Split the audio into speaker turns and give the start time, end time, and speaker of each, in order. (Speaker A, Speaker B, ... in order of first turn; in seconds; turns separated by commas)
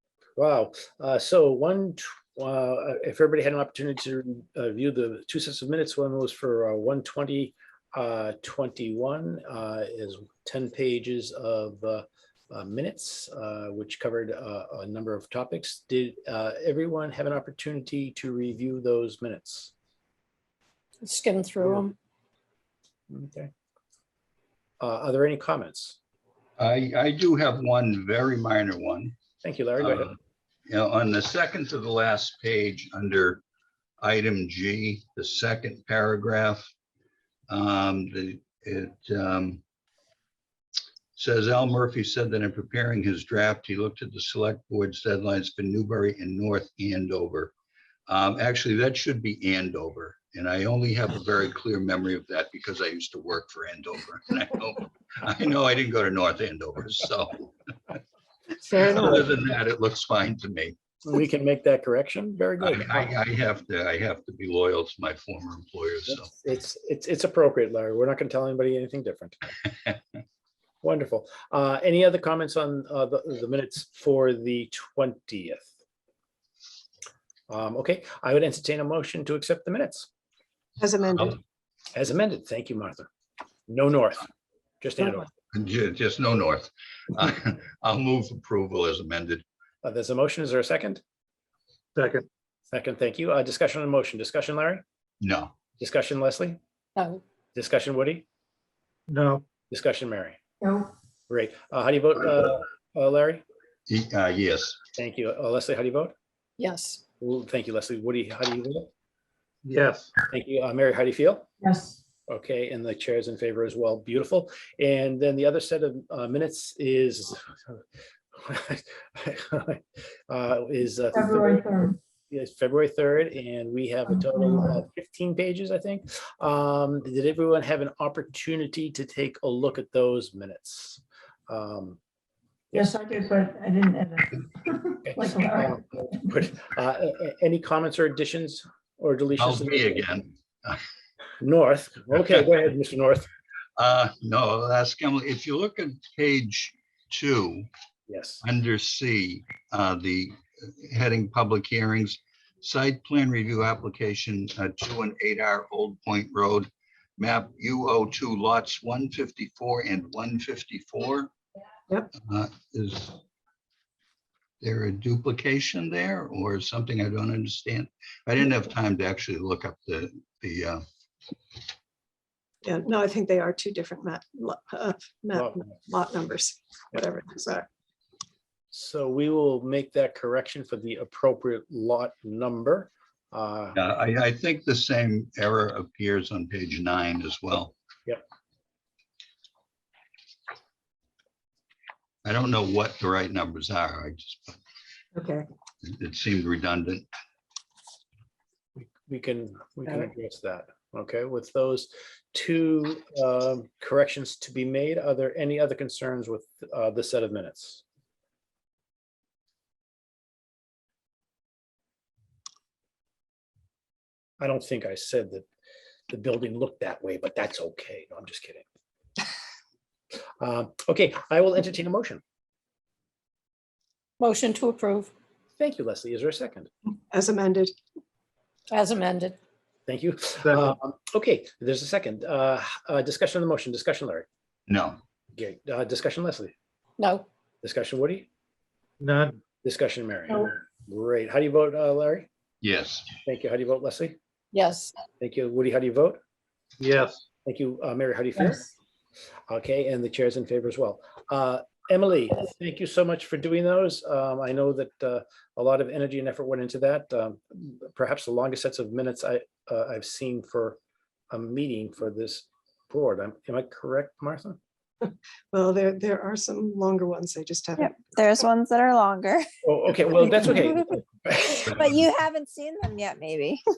Speaker A: 0.4-19.7, Speaker B: 21.0-21.9, Speaker A: 23.1-23.5, Speaker A: 24.8-26.0, Speaker C: 26.6-29.2, Speaker A: 29.4-30.1, Speaker C: 29.8-30.1, Speaker C: 30.7-33.4, Speaker C: 34.0-36.7, Speaker C: 37.5-39.6, Speaker C: 41.2-47.5, Speaker C: 48.1-58.0, Speaker D: 58.6-59.3, Speaker C: 58.8-60.8, Speaker A: 61.0-63.1, Speaker C: 62.6-66.3, Speaker A: 66.1-69.5, Speaker A: 70.8-75.7, Speaker A: 77.5-80.1, Speaker D: 80.8-81.4, Speaker A: 82.0-83.1, Speaker A: 83.7-84.3, Speaker A: 84.8-85.3, Speaker C: 85.5-89.4, Speaker A: 89.8-91.0, Speaker E: 92.0-92.3, Speaker A: 92.7-94.8, Speaker C: 95.2-95.5, Speaker A: 95.8-96.6, Speaker B: 97.0-97.2, Speaker A: 97.5-98.2, Speaker E: 99.1-99.5, Speaker A: 99.7-100.4, Speaker F: 100.6-100.9, Speaker A: 101.3-103.4, Speaker C: 103.9-104.8, Speaker A: 105.0-106.1, Speaker B: 106.6-107.0, Speaker A: 107.2-108.9, Speaker E: 109.7-110.1, Speaker A: 110.3-111.5, Speaker F: 111.6-112.0, Speaker A: 112.3-117.8, Speaker A: 118.3-121.8, Speaker F: 121.1-122.0, Speaker A: 122.3-132.0, Speaker F: 132.7-135.7, Speaker A: 135.1-140.1, Speaker C: 139.4-140.8, Speaker A: 141.4-143.3, Speaker C: 143.8-147.7, Speaker A: 148.1-148.4, Speaker C: 148.4-161.3, Speaker C: 162.2-163.2, Speaker C: 164.6-170.8, Speaker D: 172.6-177.7, Speaker A: 175.3-175.6, Speaker A: 178.7-183.8, Speaker C: 183.8-187.8, Speaker C: 192.2-194.6, Speaker C: 195.8-197.1, Speaker A: 198.8-207.8, Speaker A: 214.4-215.5, Speaker A: 216.1-218.7, Speaker A: 220.4-222.2, Speaker B: 224.2-225.1, Speaker A: 225.6-226.7, Speaker D: 227.1-227.7, Speaker B: 228.7-229.4, Speaker A: 229.9-234.3, Speaker C: 234.7-235.0, Speaker A: 235.3-236.5, Speaker B: 237.0-237.3, Speaker A: 237.6-238.3, Speaker E: 239.0-239.4, Speaker A: 239.6-242.3, Speaker C: 242.6-243.2, Speaker A: 243.2-244.2, Speaker B: 244.5-244.9, Speaker A: 245.2-246.2, Speaker E: 246.8-247.2, Speaker A: 247.4-248.7, Speaker A: 249.5-260.8, Speaker A: 261.3-264.6, Speaker D: 265.0-268.5, Speaker G: 267.8-269.5, Speaker A: 269.6-271.8, Speaker G: 270.2-270.9, Speaker G: 271.7-273.6